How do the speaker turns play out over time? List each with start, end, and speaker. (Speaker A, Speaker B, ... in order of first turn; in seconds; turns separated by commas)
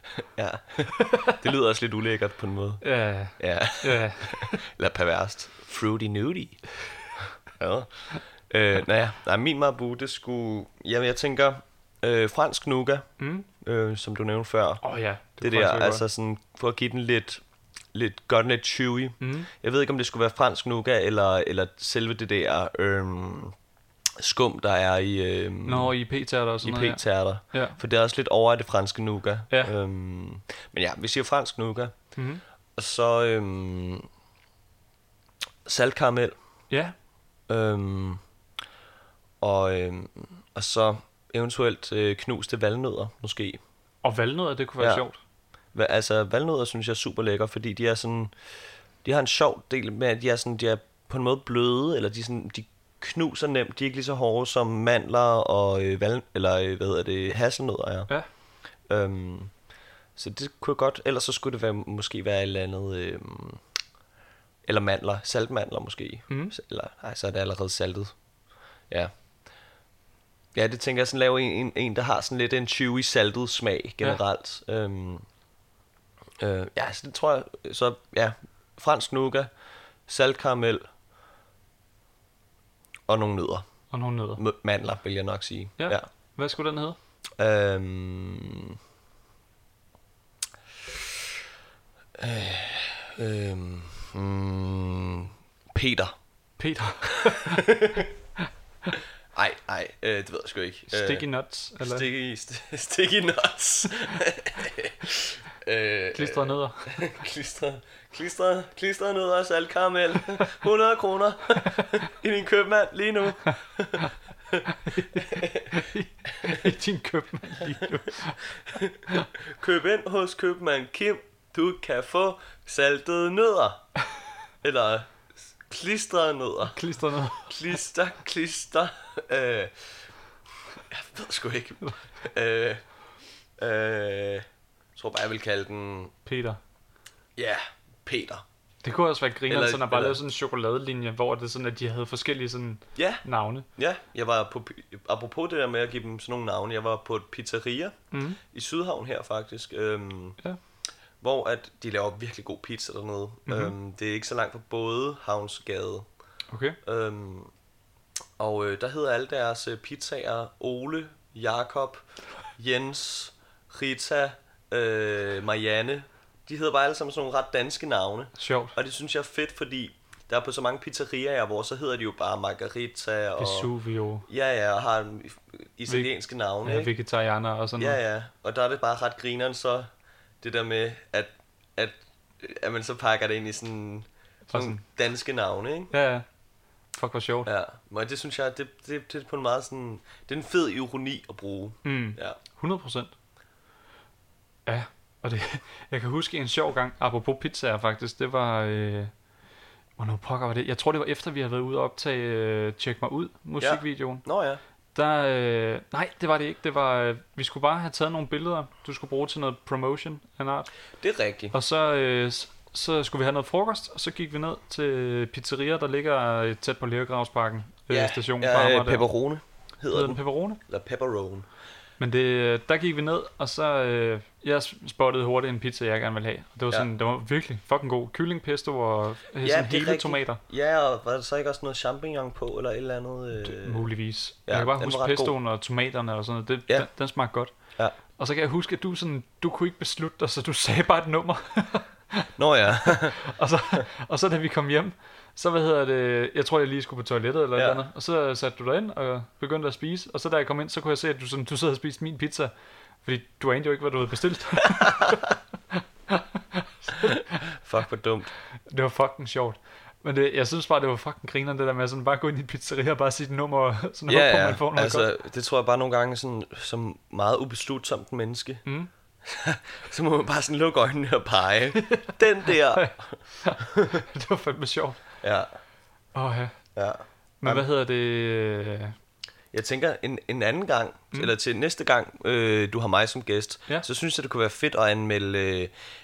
Speaker A: 0.2-2.8, Speaker B: 0.9-1.4, Speaker B: 2.8-4.6, Speaker A: 3.4-6.6, Speaker A: 7.2-13.1, Speaker B: 13.2-13.5, Speaker A: 13.6-14.8, Speaker B: 14.8-16.1, Speaker A: 15.4-17.4, Speaker A: 17.9-23.6, Speaker B: 19.2-19.5, Speaker A: 24.2-25.9, Speaker B: 25.6-27.8, Speaker A: 26.6-31.9, Speaker B: 32.2-32.4, Speaker A: 32.8-34.1, Speaker A: 35.6-36.3, Speaker A: 37.5-38.2, Speaker A: 39.4-43.6, Speaker B: 44.0-45.2, Speaker A: 45.7-48.3, Speaker A: 49.0-58.1, Speaker A: 58.9-59.5, Speaker A: 60.2-63.6, Speaker A: 64.7-68.2, Speaker B: 66.3-66.5, Speaker A: 70.5-75.2, Speaker A: 76.4-79.5, Speaker A: 80.1-80.8, Speaker A: 83.1-83.7, Speaker B: 83.9-84.4, Speaker A: 84.4-86.0, Speaker B: 85.8-87.0, Speaker A: 87.4-88.8, Speaker A: 92.2-96.1, Speaker B: 96.6-98.0, Speaker A: 97.1-98.1, Speaker A: 99.3-101.3, Speaker B: 100.9-102.1, Speaker A: 101.8-115.8, Speaker B: 106.1-107.1, Speaker B: 114.7-119.3, Speaker A: 118.7-123.9, Speaker A: 124.6-126.8, Speaker B: 126.7-127.5, Speaker A: 127.5-129.9, Speaker A: 130.9-132.8, Speaker A: 133.6-136.1, Speaker B: 136.3-136.6, Speaker A: 137.4-138.4, Speaker B: 138.8-143.7, Speaker A: 139.5-140.2, Speaker A: 143.0-143.2, Speaker A: 143.8-150.4, Speaker B: 148.1-148.4, Speaker A: 151.2-156.1, Speaker B: 153.5-153.7, Speaker B: 156.5-156.8, Speaker A: 156.8-157.5, Speaker A: 158.4-162.0, Speaker A: 162.6-173.7, Speaker B: 168.4-168.8, Speaker B: 173.4-174.3, Speaker A: 174.3-176.9, Speaker B: 176.6-178.0, Speaker A: 177.8-179.9, Speaker A: 180.4-185.9, Speaker B: 184.5-184.8, Speaker B: 185.9-186.2, Speaker B: 186.9-187.5, Speaker A: 187.5-192.4, Speaker B: 191.8-193.1, Speaker B: 194.7-199.1, Speaker B: 200.0-204.2, Speaker A: 203.6-204.6, Speaker B: 204.9-210.7, Speaker A: 211.0-211.5, Speaker B: 211.5-219.1, Speaker A: 217.9-221.5, Speaker B: 219.9-220.6, Speaker B: 222.0-230.4, Speaker A: 229.4-233.8, Speaker B: 233.4-237.5, Speaker A: 234.5-235.3, Speaker B: 238.2-252.5, Speaker A: 242.4-243.2, Speaker A: 247.6-247.8, Speaker B: 253.0-257.4, Speaker A: 257.0-258.3, Speaker B: 258.7-265.1, Speaker A: 264.1-268.6, Speaker A: 269.2-273.2, Speaker B: 271.9-275.0, Speaker A: 273.7-274.0, Speaker A: 275.2-275.5, Speaker B: 276.1-276.6, Speaker A: 276.8-277.7, Speaker B: 277.4-278.9, Speaker A: 279.5-285.7